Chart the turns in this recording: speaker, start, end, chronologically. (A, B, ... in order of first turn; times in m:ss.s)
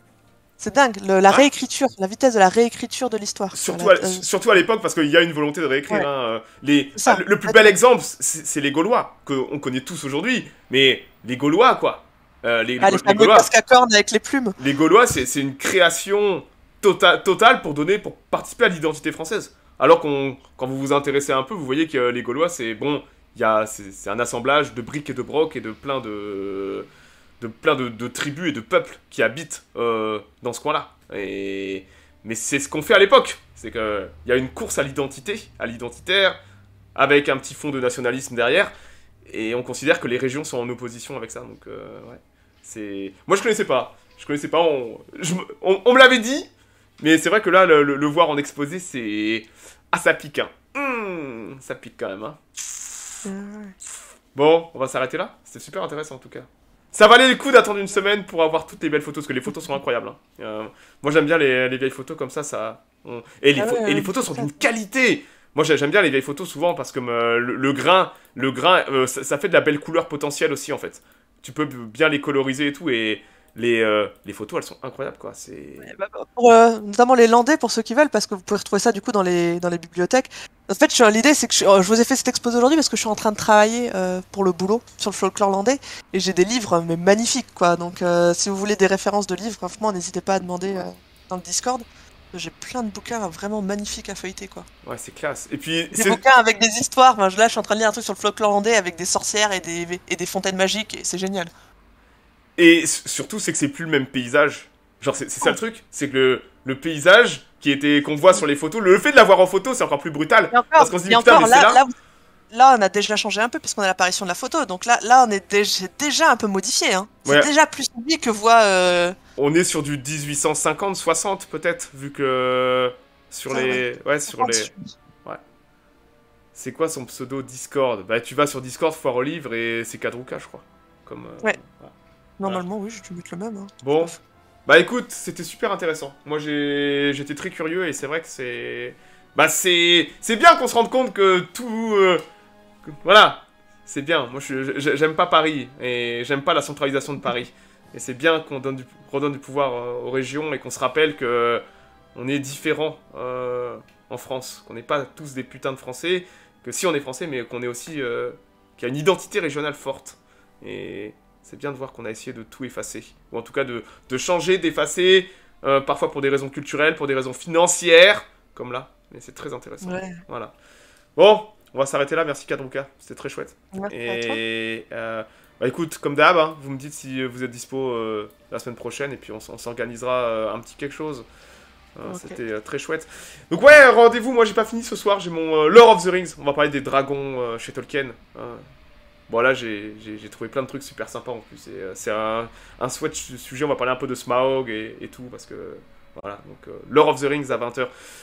0:00.6-0:04.2 A
0:03.5-0:13.5 B
0:07.0-0:07.6 A
0:12.8-0:14.6 A
0:14.6-0:26.9 B
0:27.4-0:36.4 B
0:36.9-0:38.7 B
0:39.3-0:46.5 B
0:47.0-0:52.4 B
0:53.2-0:53.7 A
0:54.3-1:15.9 B
1:03.6-1:04.6 A
1:15.8-1:34.7 A
1:34.8-1:36.2 B
1:35.9-1:41.5 A
1:42.6-1:51.8 B
1:50.5-1:51.9 A
1:52.5-1:59.2 A
1:59.4-2:04.7 B
2:03.5-2:04.9 A
2:06.5-2:12.6 B
2:12.4-2:14.2 A
2:13.8-2:22.2 B
2:22.8-2:31.6 B
2:32.1-2:50.5 B
2:49.8-2:50.2 A
2:51.2-3:01.2 B
2:53.7-2:54.4 A
3:02.0-3:08.6 B
3:02.1-3:02.4 A
3:09.3-3:17.9 B